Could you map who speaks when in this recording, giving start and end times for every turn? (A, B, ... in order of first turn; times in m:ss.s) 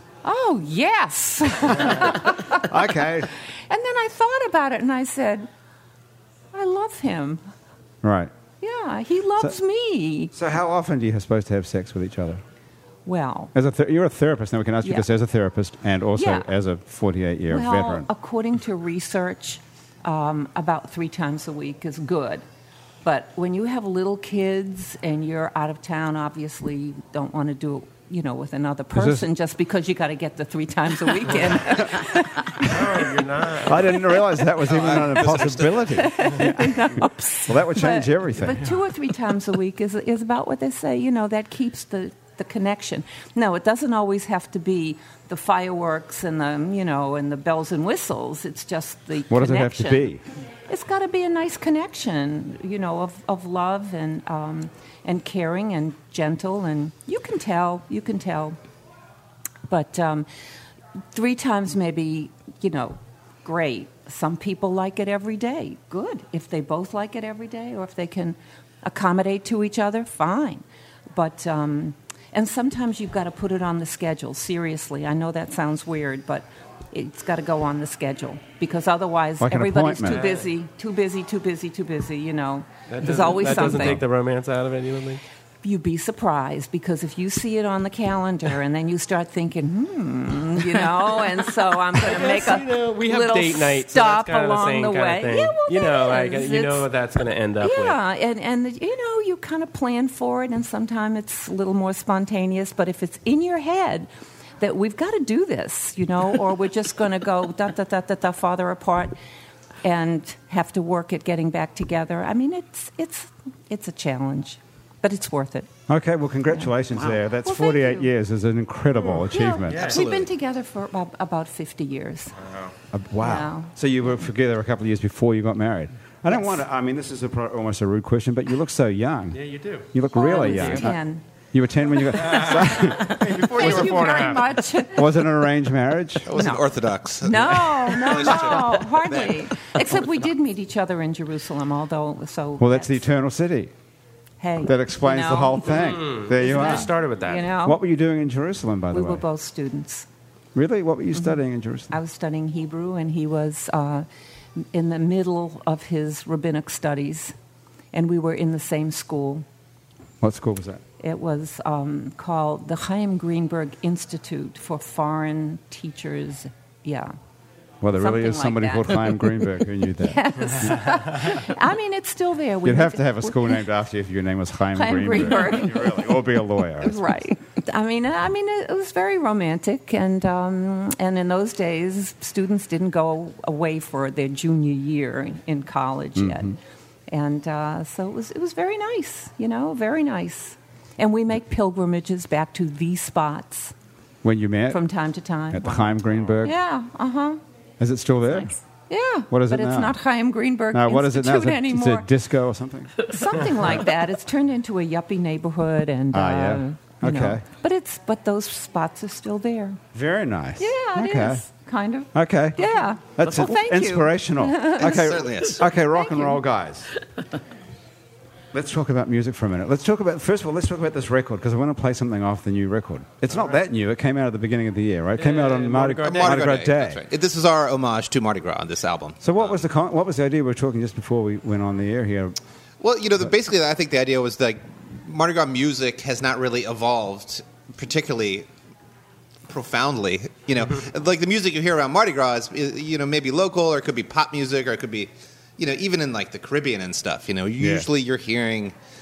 0:00.2-0:02.7 A
0:01.8-0:03.3 B
0:03.7-0:05.5 A
0:06.5-0:07.4 A
0:08.0-0:08.3 B
0:08.6-0:10.3 A
0:10.3-0:12.4 B
0:13.0-0:13.5 A
0:13.5-0:18.1 B
0:16.2-0:16.5 A
0:17.5-0:22.4 A
0:23.0-0:32.8 A
0:28.9-0:29.3 B
0:32.6-0:34.1 C
0:33.6-0:38.7 B
0:34.6-0:36.0 D
0:36.0-0:50.2 A
0:49.3-0:50.2 B
0:50.7-0:58.6 A
0:59.7-1:00.3 A
1:01.1-1:24.0 A
1:19.4-1:20.2 B
1:20.1-1:20.5 C
1:22.9-1:25.2 C
1:23.4-1:24.0 B
1:25.6-1:36.9 A
1:32.0-1:38.0 C
1:37.6-1:44.1 A
1:44.6-1:49.2 A
1:49.8-1:55.7 A
1:55.9-2:00.0 B
1:57.4-1:58.1 A
1:59.1-2:02.4 A
1:59.7-2:00.2 C
2:02.4-2:02.7 C
2:02.9-2:09.4 B
2:03.2-2:03.7 A
2:09.3-2:09.9 C
2:09.9-2:11.0 B
2:10.1-2:11.2 A
2:11.5-2:13.7 B
2:12.2-2:14.6 C
2:13.3-2:15.2 A
2:13.8-2:14.2 D
2:14.9-2:16.3 B
2:16.3-2:19.5 D
2:16.3-2:16.6 A
2:17.2-2:23.0 A
2:22.6-2:23.7 B
2:24.4-2:27.8 A
2:24.6-2:26.9 B
2:25.6-2:27.5 C
2:27.6-2:29.2 B
2:28.9-2:30.1 A
2:30.6-2:31.9 B
2:31.9-2:34.1 A
2:34.7-2:37.4 A
2:37.9-2:39.5 A
2:40.2-2:40.8 B
2:41.0-2:47.2 A
2:47.8-2:50.8 B
2:47.9-2:49.4 A
2:50.0-2:53.6 A
2:52.6-2:57.0 B
2:54.7-2:56.2 A
2:56.8-3:06.6 A
3:06.2-3:06.5 B
3:07.1-3:13.7 A
3:14.2-3:14.8 B
3:14.7-3:17.4 A
3:15.5-3:16.6 B
3:17.8-3:18.5 B
3:18.9-3:22.1 A
3:19.3-3:20.0 B
3:20.7-3:23.0 B
3:23.0-3:29.8 A
3:26.1-3:27.4 B
3:29.9-3:31.4 B
3:30.6-3:35.3 A
3:32.1-3:36.9 B
3:34.8-3:35.7 D
3:35.9-3:36.4 A
3:38.5-3:47.0 B
3:45.2-3:46.6 C
3:46.0-3:49.6 D
3:49.2-3:52.4 B
3:52.8-3:58.5 D
3:59.5-4:08.8 D
4:07.6-4:07.9 B